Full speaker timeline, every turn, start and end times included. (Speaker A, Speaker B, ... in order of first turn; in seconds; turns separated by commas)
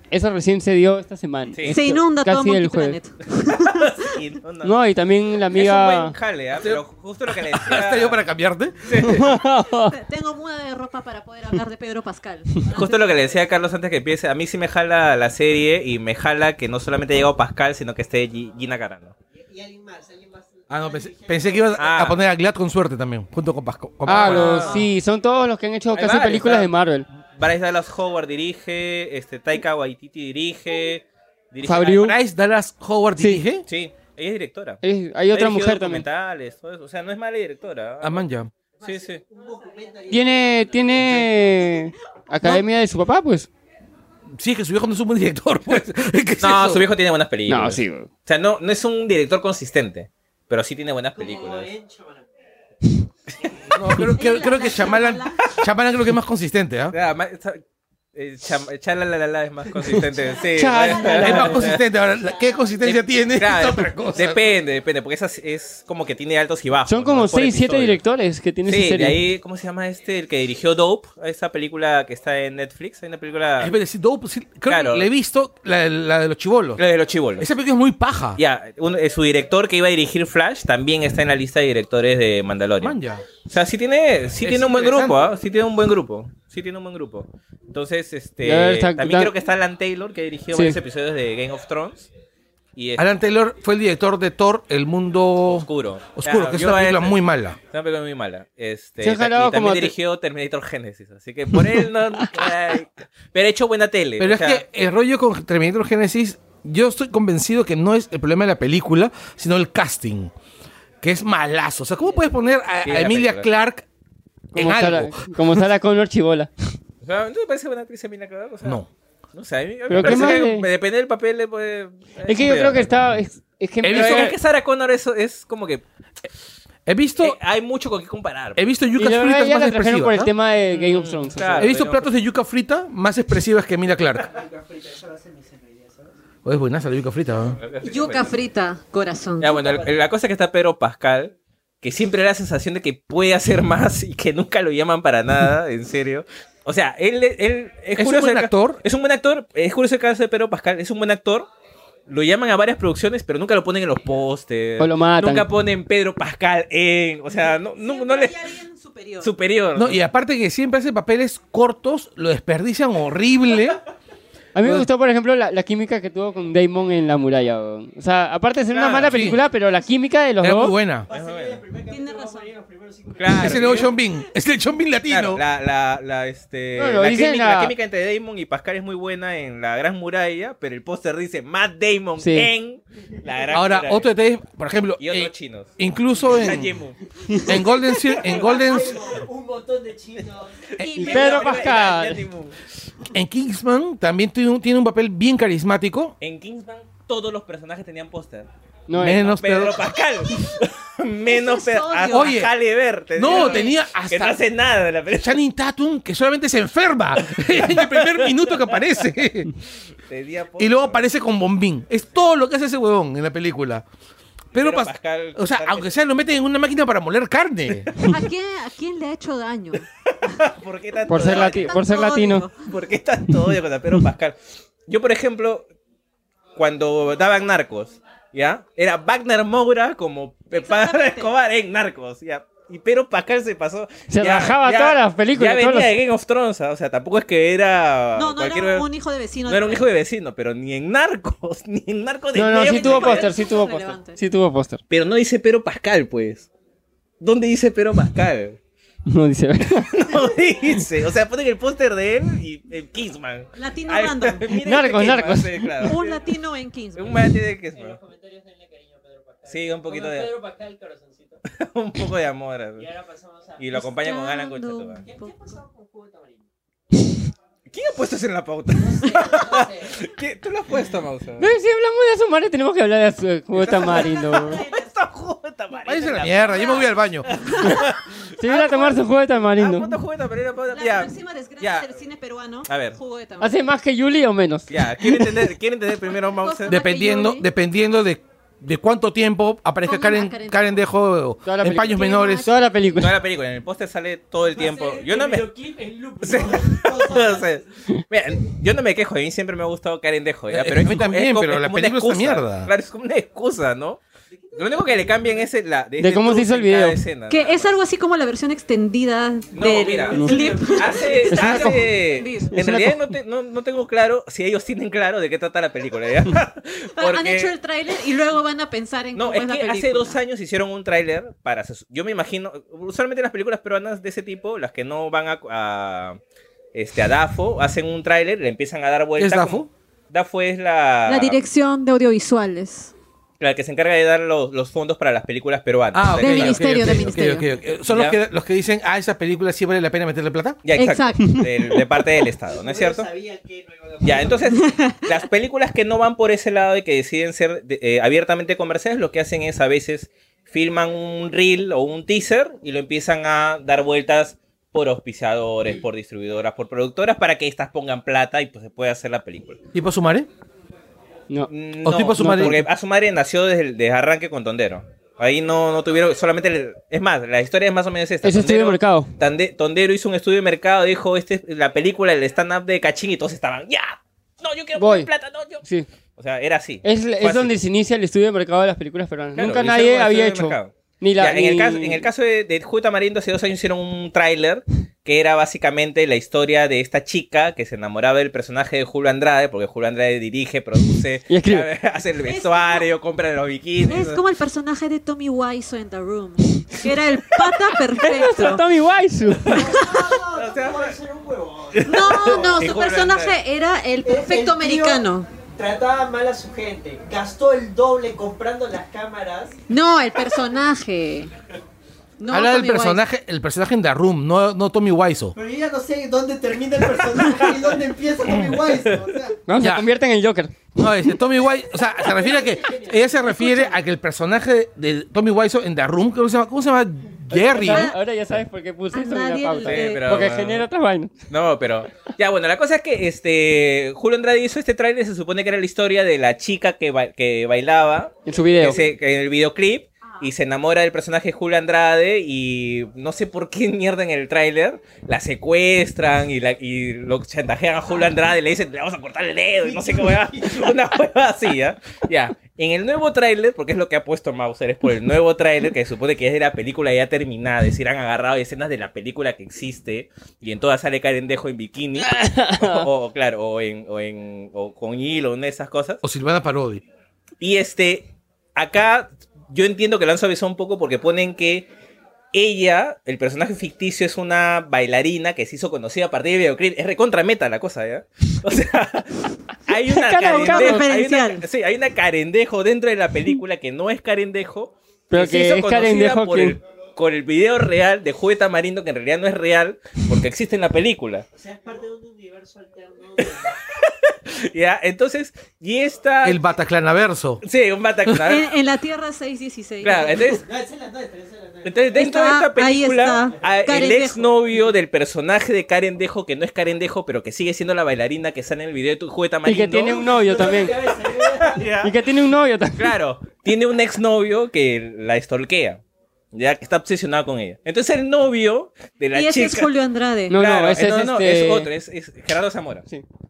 Speaker A: 0.1-3.0, Speaker B: 1.7-4.1, Speaker C: 3.3-4.8, Speaker A: 4.6-6.2, Speaker C: 5.5-8.2, Speaker D: 6.6-9.2, Speaker C: 8.8-9.3, Speaker A: 9.0-9.9, Speaker B: 9.8-13.1, Speaker C: 12.7-19.1, Speaker E: 19.3-22.2, Speaker D: 20.7-24.8, Speaker C: 21.8-22.2, Speaker A: 24.1-27.1, Speaker C: 24.1-24.9, Speaker C: 25.9-26.7, Speaker C: 27.4-32.2, Speaker A: 31.6-32.1, Speaker D: 32.1-33.6, Speaker A: 33.2-33.4, Speaker C: 33.6-38.3, Speaker A: 34.8-36.0, Speaker D: 38.0-38.5, Speaker E: 38.8-41.2, Speaker C: 38.8-39.2, Speaker A: 40.1-43.5, Speaker C: 40.9-41.3, Speaker D: 44.4-46.9, Speaker C: 46.4-51.7, Speaker A: 47.5-48.1, Speaker E: 51.1-52.3, Speaker D: 53.7-57.0, Speaker B: 54.1-55.4, Speaker C: 56.9-57.6, Speaker C: 58.1-61.8, Speaker D: 60.5-64.4, Speaker A: 60.5-61.7, Speaker E: 62.0-63.0, Speaker C: 62.8-68.0, Speaker E: 64.0-64.6, Speaker A: 66.8-69.2, Speaker C: 68.7-73.8, Speaker D: 73.6-76.8, Speaker C: 74.7-75.1, Speaker C: 76.8-77.5, Speaker D: 77.4-78.4, Speaker C: 78.3-83.0, Speaker D: 82.8-83.3, Speaker C: 83.5-92.1, Speaker D: 84.4-85.2, Speaker A: 88.4-89.3, Speaker A: 90.5-90.8, Speaker C: 92.8-93.1, Speaker D: 93.0-97.6, Speaker C: 95.5-104.6, Speaker A: 99.0-99.9, Speaker A: 102.2-102.4, Speaker D: 104.2-110.3, Speaker D: 111.0-113.8, Speaker E: 112.0-112.4, Speaker C: 112.8-113.5, Speaker A: 114.5-116.5, Speaker D: 114.5-115.6, Speaker C: 117.0-118.8, Speaker C: 119.3-122.9, Speaker A: 119.9-120.7, Speaker D: 120.0-120.5, Speaker A: 122.2-124.3, Speaker D: 123.8-124.4, Speaker C: 123.9-125.8, Speaker D: 126.8-127.4, Speaker C: 127.2-128.6, Speaker D: 128.6-130.3, Speaker A: 129.0-131.7, Speaker C: 130.7-132.1, Speaker D: 131.6-134.2, Speaker E: 134.2-136.2, Speaker D: 136.4-137.6, Speaker C: 137.6-138.2, Speaker B: 137.8-139.6, Speaker C: 139.4-151.5, Speaker E: 139.4-140.1, Speaker D: 148.0-148.8, Speaker C: 152.1-158.5, Speaker A: 154.8-155.5, Speaker B: 157.3-159.3, Speaker C: 159.2-160.0, Speaker D: 159.8-163.8, Speaker A: 164.5-170.7, Speaker C: 168.7-169.4, Speaker D: 169.0-169.4, Speaker D: 170.4-171.1, Speaker E: 171.1-174.0, Speaker C: 171.1-171.6, Speaker B: 171.9-172.5, Speaker C: 173.2-173.9, Speaker D: 173.3-175.4, Speaker C: 175.1-184.1, Speaker A: 176.8-177.7, Speaker A: 182.2-182.5, Speaker D: 183.5-186.8, Speaker C: 185.0-187.5, Speaker D: 187.4-188.9, Speaker E: 188.2-191.9, Speaker D: 190.8-191.2, Speaker B: 190.8-191.8, Speaker A: 190.9-192.2, Speaker C: 191.0-192.6, Speaker D: 193.1-196.1, Speaker C: 196.2-198.5, Speaker A: 198.9-199.3, Speaker D: 198.9-199.8, Speaker C: 199.4-205.4, Speaker B: 201.3-202.4, Speaker D: 202.1-202.5, Speaker D: 203.1-204.4, Speaker B: 203.3-203.8, Speaker D: 205.1-209.5, Speaker C: 207.2-209.0, Speaker C: 210.1-211.0, Speaker D: 210.6-213.8, Speaker D: 214.5-218.2, Speaker C: 214.5-215.9, Speaker B: 218.1-219.9, Speaker C: 220.3-221.7, Speaker A: 221.1-222.4, Speaker B: 221.2-222.5, Speaker C: 222.6-225.7, Speaker C: 226.6-238.9, Speaker B: 230.5-231.3, Speaker A: 234.1-235.9, Speaker B: 238.1-239.9, Speaker C: 239.5-243.3, Speaker A: 242.3-244.8, Speaker B: 242.6-244.2, Speaker C: 244.9-246.5, Speaker C: 247.2-248.6, Speaker A: 249.1-249.9, Speaker C: 249.9-256.0, Speaker B: 253.6-254.4, Speaker A: 254.5-255.9, Speaker B: 255.8-257.1, Speaker E: 255.9-256.3, Speaker C: 256.9-258.0, Speaker E: 257.7-261.4, Speaker C: 259.4-260.3, Speaker C: 261.5-262.9, Speaker E: 262.8-263.9, Speaker C: 263.6-265.0, Speaker B: 263.7-265.5, Speaker E: 265.0-266.5, Speaker C: 267.7-271.5, Speaker E: 268.7-270.0, Speaker A: 271.4-274.6, Speaker C: 273.6-279.0, Speaker B: 274.3-274.9, Speaker D: 275.9-277.3, Speaker B: 276.2-277.8, Speaker A: 278.4-280.0, Speaker C: 279.5-281.9, Speaker B: 280.7-283.6, Speaker C: 282.7-283.0, Speaker A: 283.4-285.3, Speaker C: 284.7-286.7, Speaker B: 286.1-287.5, Speaker D: 286.7-292.5, Speaker B: 289.8-290.8, Speaker A: 291.4-293.2, Speaker B: 291.9-292.5, Speaker C: 292.9-295.5, Speaker E: 294.4-297.6, Speaker C: 296.2-304.0, Speaker D: 300.5-302.7, Speaker E: 304.3-305.5, Speaker C: 304.5-307.7, Speaker A: 306.0-307.0, Speaker B: 307.3-312.5, Speaker C: 309.5-317.5, Speaker E: 310.1-311.5, Speaker A: 311.3-311.9, Speaker A: 312.5-313.1, Speaker B: 317.0-320.2, Speaker C: 319.1-326.2, Speaker C: 326.7-331.4, Speaker D: 329.2-329.7, Speaker B: 331.1-332.9, Speaker C: 333.4-337.1, Speaker D: 335.9-340.6, Speaker B: 336.1-337.5, Speaker C: 337.9-338.2, Speaker C: 340.6-343.1, Speaker B: 340.8-341.5, Speaker E: 342.5-344.5, Speaker C: 344.0-359.6, Speaker B: 344.5-345.1, Speaker D: 359.7-360.3, Speaker C: 361.5-375.6, Speaker D: 361.8-362.6, Speaker A: 362.2-362.6, Speaker A: 368.2-369.1, Speaker A: 374.8-375.1, Speaker C: 376.2-377.5, Speaker A: 376.8-382.1, Speaker C: 379.4-394.2, Speaker A: 391.3-391.7, Speaker B: 392.2-392.9, Speaker B: 393.9-398.6, Speaker A: 398.0-399.6, Speaker C: 399.5-399.8, Speaker E: 399.5-402.7, Speaker C: 400.3-400.9, Speaker C: 401.7-403.4, Speaker B: 401.8-405.3, Speaker E: 404.0-409.6, Speaker B: 409.7-411.3, Speaker B: 412.2-413.0, Speaker D: 412.3-415.3, Speaker E: 415.3-419.4, Speaker A: 419.5-420.7, Speaker D: 419.6-419.9, Speaker D: 420.8-427.9, Speaker E: 421.6-423.8, Speaker A: 427.3-431.1, Speaker B: 427.6-428.0, Speaker B: 428.9-430.2, Speaker C: 429.6-430.6, Speaker C: 431.3-466.0, Speaker A: 438.3-438.9, Speaker E: 449.6-450.8, Speaker A: 462.0-462.9, Speaker D: 466.0-466.8, Speaker C: 467.4-471.7, Speaker C: 472.3-491.2, Speaker A: 479.9-480.9, Speaker B: 480.2-481.4, Speaker A: 485.1-486.6, Speaker E: 491.3-493.6, Speaker C: 493.2-496.4, Speaker D: 496.2-497.4, Speaker C: 497.4-498.4, Speaker B: 498.2-500.3, Speaker C: 499.8-500.4, Speaker E: 500.2-502.1, Speaker C: 501.6-512.0, Speaker B: 501.9-504.3, Speaker E: 503.1-503.8, Speaker A: 509.4-510.8, Speaker E: 509.8-511.8, Speaker A: 511.8-513.0, Speaker C: 512.8-515.8, Speaker C: 516.3-519.7, Speaker B: 519.1-520.4, Speaker A: 520.3-521.7, Speaker C: 520.3-522.9